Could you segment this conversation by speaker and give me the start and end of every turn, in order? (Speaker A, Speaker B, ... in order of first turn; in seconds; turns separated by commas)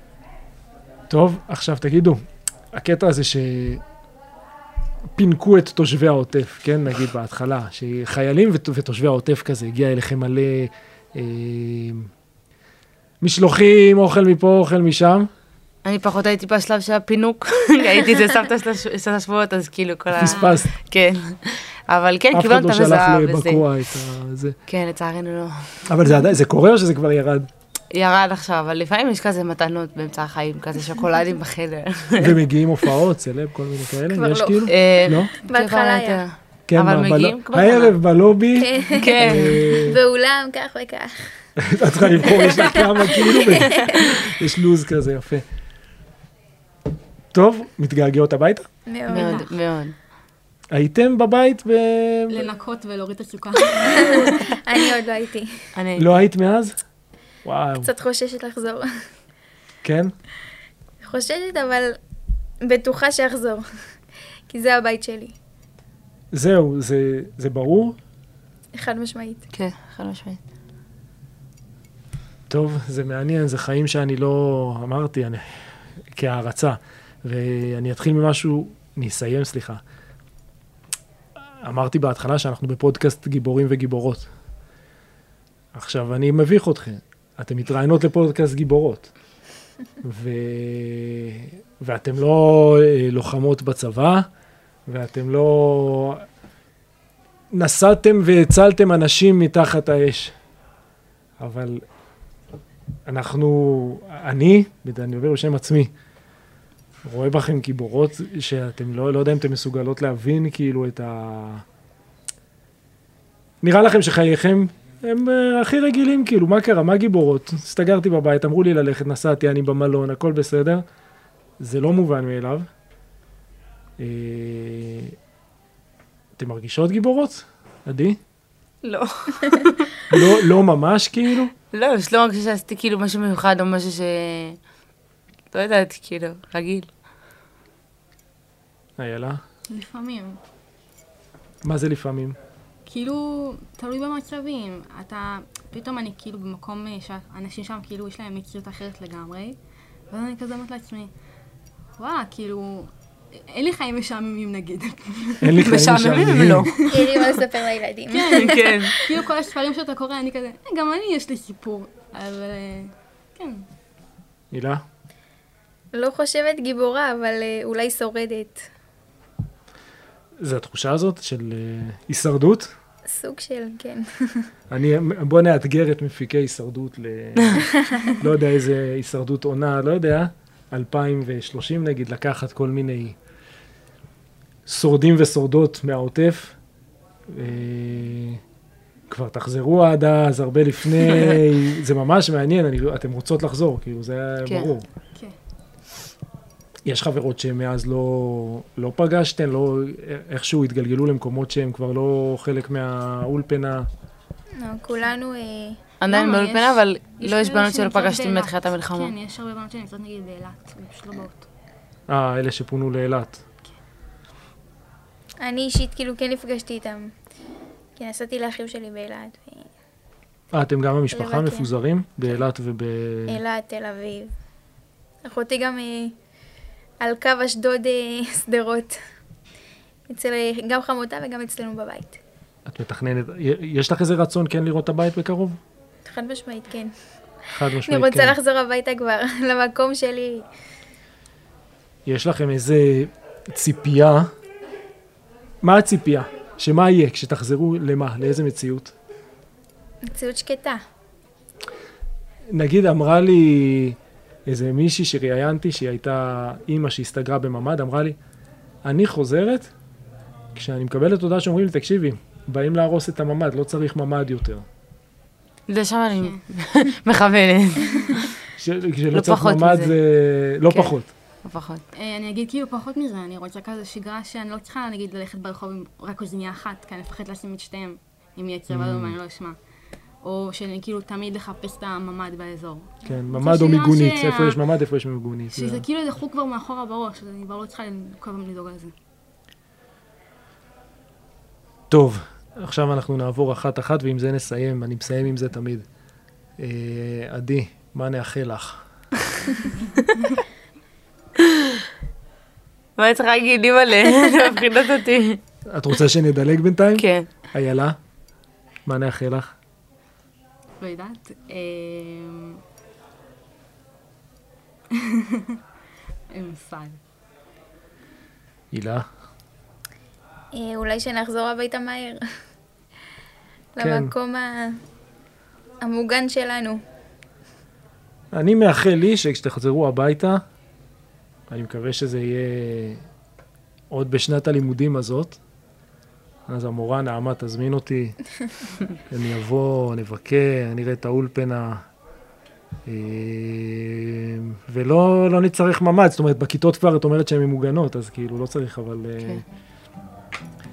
Speaker A: 1.1-3.8, Speaker A: 5.2-12.1, Speaker A: 13.2-15.3, Speaker B: 15.8-23.6, Speaker A: 20.1-20.7, Speaker C: 20.2-20.6, Speaker A: 22.3-24.6, Speaker B: 24.7-25.8, Speaker A: 25.9-27.5, Speaker B: 27.9-32.4, Speaker A: 32.2-35.3, Speaker D: 34.1-36.2, Speaker B: 34.7-38.0, Speaker A: 36.7-40.0, Speaker D: 38.6-41.4, Speaker B: 39.0-39.8, Speaker A: 41.6-45.4, Speaker D: 42.2-44.2, Speaker A: 47.3-48.7, Speaker D: 48.9-49.4, Speaker C: 49.1-49.5, Speaker B: 49.1-50.0, Speaker A: 50.7-52.4, Speaker C: 52.3-54.5, Speaker D: 53.9-55.5, Speaker B: 55.7-56.1, Speaker A: 56.0-56.8, Speaker A: 57.4-57.9, Speaker D: 57.8-59.0, Speaker A: 59.8-60.1, Speaker D: 61.0-62.0, Speaker D: 62.6-63.7, Speaker D: 64.5-65.3, Speaker A: 66.3-68.0, Speaker D: 68.7-69.4, Speaker B: 69.5-70.4, Speaker A: 72.5-79.8, Speaker A: 81.6-84.3, Speaker A: 85.7-89.1, Speaker A: 90.0-94.2, Speaker A: 94.9-96.2, Speaker A: 97.5-100.3, Speaker A: 101.4-101.8, Speaker A: 103.0-105.9, Speaker A: 107.0-111.6, Speaker A: 113.6-120.8, Speaker A: 121.6-122.7, Speaker A: 124.0-125.2, Speaker A: 126.4-128.2, Speaker B: 128.8-129.9, Speaker A: 130.1-131.5, Speaker B: 131.7-134.6, Speaker B: 135.5-136.9, Speaker A: 139.0-139.4, Speaker C: 139.7-140.4, Speaker A: 141.6-142.4, Speaker C: 142.8-149.6, Speaker C: 150.1-151.1, Speaker C: 152.0-155.6, Speaker A: 155.4-156.7, Speaker B: 155.6-157.4, Speaker C: 156.8-157.3, Speaker D: 156.9-158.6, Speaker C: 158.1-163.7, Speaker B: 158.3-159.1, Speaker A: 164.5-164.8, Speaker D: 165.9-168.7, Speaker A: 170.4-172.7, Speaker D: 173.1-174.5, Speaker A: 174.7-183.2, Speaker D: 177.8-178.1, Speaker A: 184.7-186.6, Speaker A: 187.3-188.4, Speaker A: 189.1-194.8, Speaker A: 196.8-203.9, Speaker D: 204.6-205.8, Speaker B: 206.0-209.1, Speaker C: 206.1-211.5, Speaker A: 212.1-213.4, Speaker D: 215.4-217.1, Speaker D: 218.0-219.7, Speaker A: 220.5-223.4, Speaker D: 221.1-221.7, Speaker D: 223.3-224.3, Speaker D: 225.2-226.1, Speaker D: 227.0-229.0, Speaker D: 230.1-232.2, Speaker A: 232.7-235.6, Speaker D: 236.0-236.9, Speaker A: 237.5-238.3, Speaker D: 237.8-240.5, Speaker A: 242.1-244.3, Speaker A: 245.6-248.9, Speaker D: 250.1-250.8, Speaker A: 252.5-258.1, Speaker A: 258.8-259.7, Speaker A: 260.5-264.6, Speaker B: 265.7-268.4, Speaker C: 267.8-268.3, Speaker A: 268.6-271.1, Speaker B: 269.1-270.0, Speaker B: 270.7-271.8, Speaker C: 271.9-279.6, Speaker A: 278.7-279.2, Speaker C: 280.2-284.6, Speaker A: 283.0-285.8, Speaker C: 285.5-288.9, Speaker A: 291.9-295.8, Speaker A: 296.6-298.8, Speaker B: 301.4-301.8, Speaker B: 303.0-305.4, Speaker A: 305.7-308.0, Speaker B: 307.0-307.3, Speaker A: 308.9-309.5, Speaker C: 310.8-312.6, Speaker C: 314.9-315.6, Speaker C: 316.3-317.0, Speaker A: 318.7-319.1, Speaker D: 320.5-322.2, Speaker D: 323.8-324.8, Speaker A: 323.8-324.1, Speaker D: 325.8-326.8, Speaker A: 328.3-330.4, Speaker A: 331.5-333.0, Speaker A: 333.9-335.4, Speaker A: 336.5-338.1, Speaker A: 339.1-341.8, Speaker A: 342.9-349.4